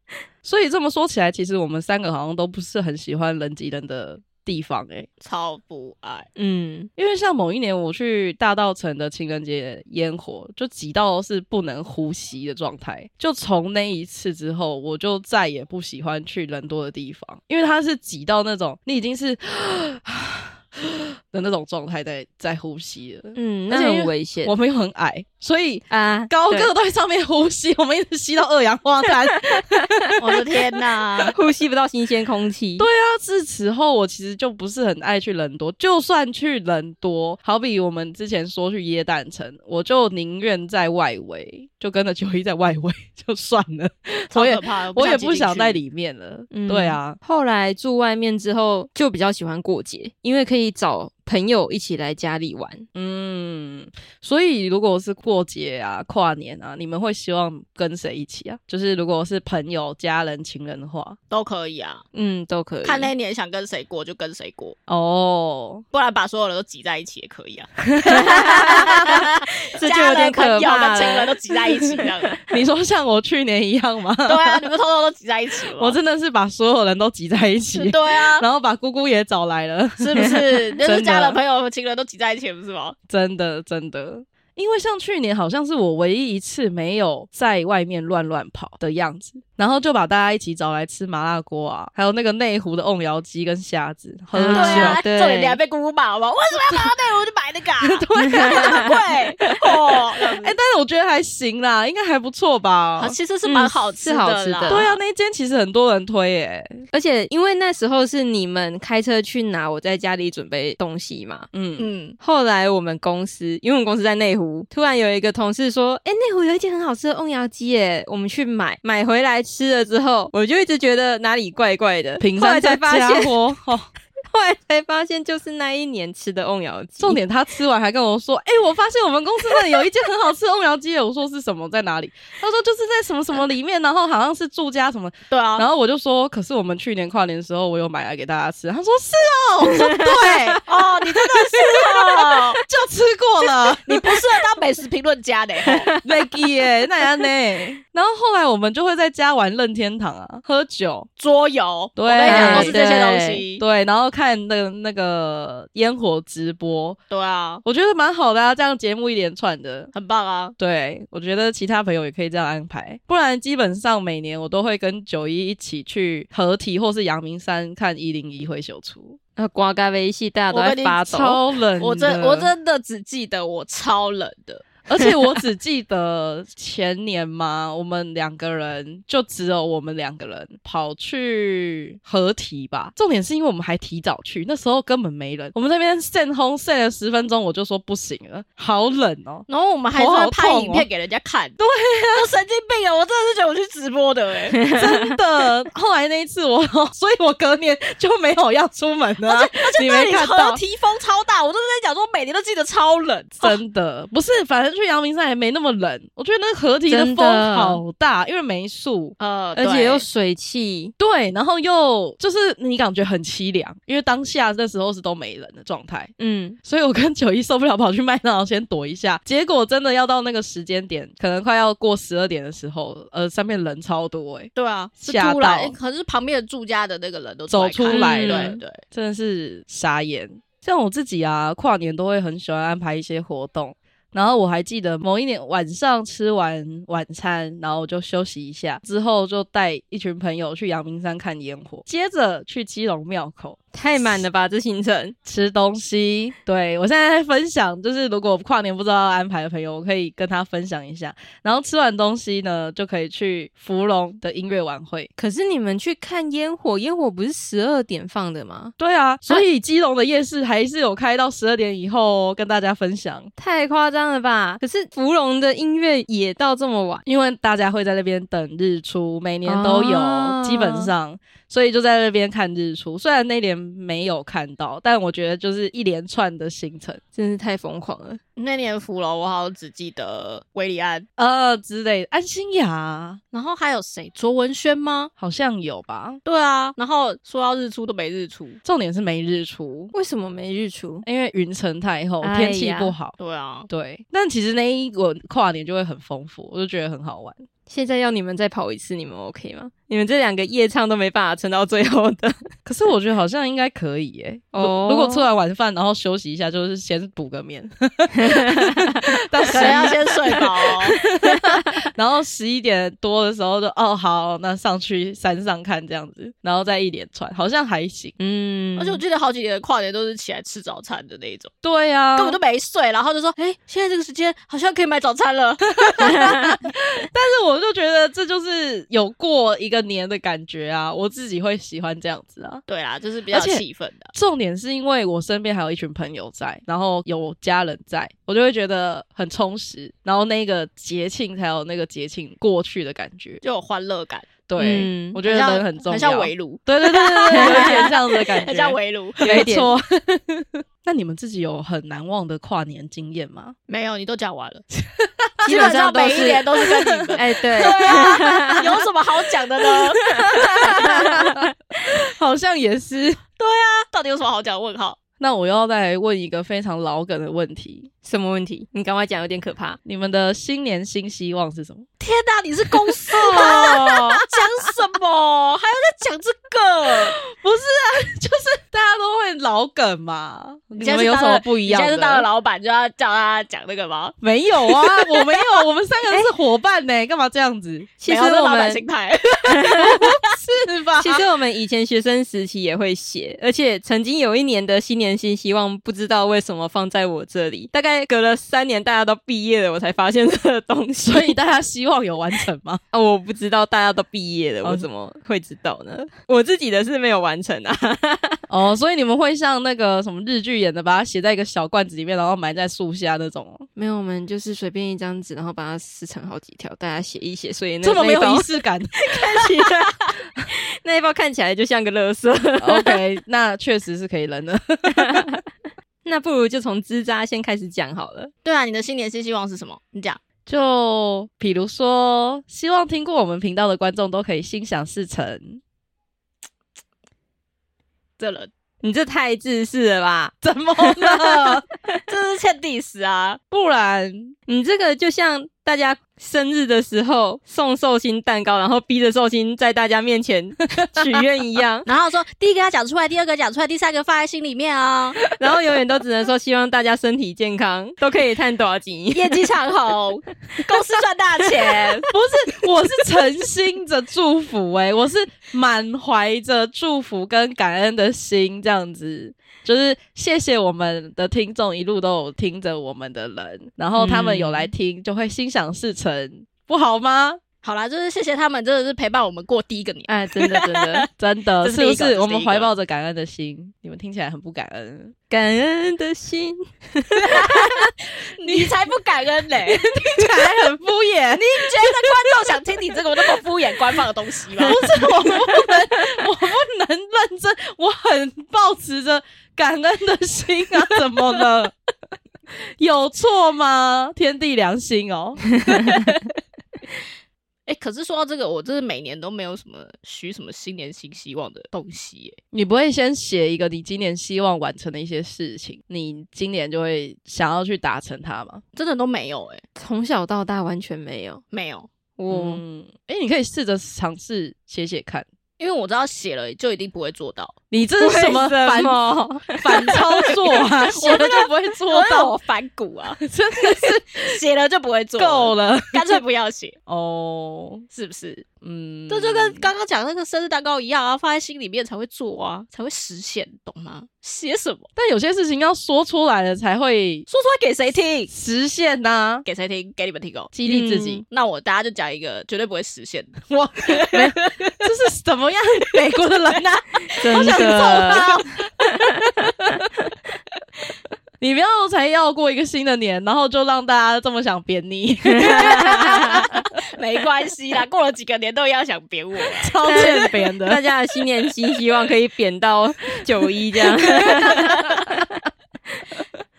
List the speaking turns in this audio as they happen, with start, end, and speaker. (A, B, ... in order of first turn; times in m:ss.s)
0:00.4-0:05.1 A
0:05.2-0:06.3 B
0:06.4-0:06.9 C
0:07.0-0:30.6 A
0:23.3-0:24.5 C
0:25.9-0:26.7 C
0:30.2-0:31.3 B
0:31.3-0:32.8 C
0:32.8-0:47.2 A
0:44.3-0:45.8 B
0:46.5-0:52.8 C
0:52.9-1:01.2 A
1:01.3-1:02.0 B
1:02.1-1:03.1 C
1:02.8-1:04.8 B
1:04.9-1:05.8 A
1:05.9-1:07.7 B
1:07.9-1:08.7 A
1:08.0-1:11.5 C
1:08.4-1:12.4 B
1:12.5-1:14.7 A
1:14.2-1:16.0 B
1:15.7-1:21.4 A
1:17.7-1:18.4 B
1:20.0-1:23.0 B
1:23.1-1:35.0 A
1:34.3-1:35.6 C
1:34.5-1:40.6 B
1:37.8-1:38.9 A
1:38.6-1:38.9 C
1:40.4-1:43.1 A
1:43.0-1:44.9 B
1:43.4-1:44.9 C
1:44.7-1:46.8 A
1:46.9-1:51.5 C
1:51.5-1:51.8 A
1:51.8-1:52.2 B
1:52.2-2:03.3 C
2:02.2-2:03.9 A
2:04.3-2:07.2 C
2:07.0-2:20.6 A
2:15.3-2:15.7 B
2:19.7-2:20.6 C
2:20.7-2:22.6 B
2:21.2-2:24.2 A
2:23.8-2:25.9 B
2:25.6-2:26.5 C
2:26.0-2:31.1 A
2:31.2-2:33.6 B
2:32.0-2:32.9 A
2:32.2-2:33.4 C
2:33.4-2:37.0 A
2:37.1-2:37.6 B
2:37.6-2:39.9 A
2:39.9-2:40.6 B
2:40.6-2:49.2 A
2:49.4-2:51.4 C
2:50.5-2:51.0 B
2:51.1-2:52.5 A
2:51.8-2:54.7 B
2:54.9-3:10.9 A
3:09.5-3:11.6 B
3:11.6-3:12.3 A
3:12.1-3:14.6 B
3:14.6-3:15.1 C
3:14.7-3:20.6 A
3:19.2-3:23.6 B
3:23.4-3:29.1 A
3:26.9-3:27.8 C
3:29.2-3:30.0 B
3:29.6-3:30.9 C
3:31.0-3:36.1 A
3:36.2-3:36.6 C
3:36.6-3:45.8 A
3:44.5-3:48.8 B
3:47.5-4:04.2 A
3:47.9-3:48.6 C
4:03.7-4:05.1 C
4:05.2-4:15.1 A
4:15.2-4:18.7 C
4:18.8-4:23.3 A
4:23.4-4:27.0 C
4:27.0-4:37.0 A
4:29.4-4:30.9 C
4:37.1-4:38.2 C
4:38.4-4:41.0 B
4:41.2-4:43.2 A
4:43.3-4:45.1 B
4:45.2-4:46.2 A
4:46.2-4:48.6 B
4:48.6-4:49.9 A
4:49.9-4:51.0 C
4:51.0-4:53.2 A
4:52.2-4:53.0 C
4:53.2-4:53.7 B
4:53.7-4:57.4 A
4:57.7-5:02.3 C
5:02.6-5:18.2 A
5:04.5-5:05.3 C
5:08.2-5:09.0 C
5:09.5-5:11.0 B
5:09.5-5:10.0 C
5:11.1-5:11.6 C
5:18.2-5:19.0 C
5:18.8-5:21.5 B
5:21.6-5:22.4 A
5:22.2-5:26.1 B
5:25.7-5:32.6 A
5:26.2-5:26.5 C
5:32.7-5:34.1 B
5:33.3-5:43.4 A
5:43.4-5:44.3 B
5:44.5-5:53.6 A
5:44.6-5:45.2 C
5:45.2-5:49.4 B
5:47.3-5:47.9 C
5:49.2-5:49.7 C
5:53.7-5:54.6 B
5:55.0-5:55.6 A
5:55.4-5:56.5 C
5:55.4-6:00.6 B
5:56.8-5:58.2 A
5:57.1-5:58.7 C
6:00.0-6:03.2 A
6:00.3-6:01.5 C
6:03.4-6:05.0 B
6:05.2-6:07.9 A
6:08.0-6:09.8 C
6:09.8-6:11.8 A
6:12.0-6:17.1 B
6:13.1-6:14.2 A
6:13.4-6:13.9 C
6:17.2-6:22.3 A
6:20.8-6:24.2 B
6:24.2-6:27.9 A
6:24.7-6:25.1 B
6:28.0-6:28.8 C
6:28.0-6:30.4 B
6:29.5-6:30.1 C
6:29.8-6:31.2 A
6:31.0-6:41.4 C
6:41.0-6:42.8 A
6:42.9-6:48.4 C
6:48.5-6:53.7 A
6:53.8-6:58.5 C
6:57.8-6:59.5 A
6:59.0-7:00.1 C
7:00.8-7:03.0 C
7:02.6-7:05.2 A
7:05.0-7:05.4 C
7:06.0-7:08.3 C
7:08.4-7:10.2 B
7:10.4-7:15.6 A
7:18.2-7:18.5 B
7:18.8-7:21.6 C
7:20.4-7:21.6 A
7:22.1-7:23.4 B
7:23.5-7:24.3 A
7:24.5-7:31.9 C
7:31.8-7:35.2 B
7:35.3-7:39.4 C
7:39.1-7:42.1 B
7:42.1-7:57.4 A
7:54.0-7:54.7 C
7:57.6-8:01.1 B
8:00.1-8:01.1 C
8:01.2-8:05.1 A
8:01.6-8:02.7 C
8:05.3-8:07.7 C
8:07.3-8:09.9 B
8:08.4-8:08.8 A
8:09.6-8:12.3 A
8:11.4-8:14.9 B
8:14.6-8:21.7 A
8:15.0-8:15.7 C
8:22.8-8:26.2 A
8:27.7-8:32.4 B
8:32.5-8:38.6 A
8:38.8-8:39.6 B
8:39.8-8:41.4 C
8:41.5-8:41.9 B
8:42.2-8:42.6 C
8:42.3-8:45.2 A
8:45.6-8:47.6 B
8:47.7-8:52.4 A
8:48.0-8:50.3 C
8:50.9-8:53.2 B
8:53.2-8:54.4 A
8:53.8-8:56.8 B
8:55.2-8:56.2 A
8:56.9-8:57.8 A
8:57.9-8:58.5 B
8:58.6-8:59.7 A
8:59.1-9:04.9 B
9:05.0-9:07.2 A
9:07.3-9:08.3 B
9:08.3-9:09.4 A
9:09.4-9:10.5 B
9:10.5-9:11.2 A
9:10.6-9:11.2 C
9:11.2-9:14.7 B
9:13.8-9:19.7 A
9:15.9-9:16.6 B
9:17.1-9:17.4 B
9:17.2-9:18.3 C
9:21.4-9:26.6 A
9:25.3-9:26.4 C
9:26.3-9:30.2 B
9:29.6-9:30.8 A
9:29.8-9:35.2 C
9:34.1-9:35.1 A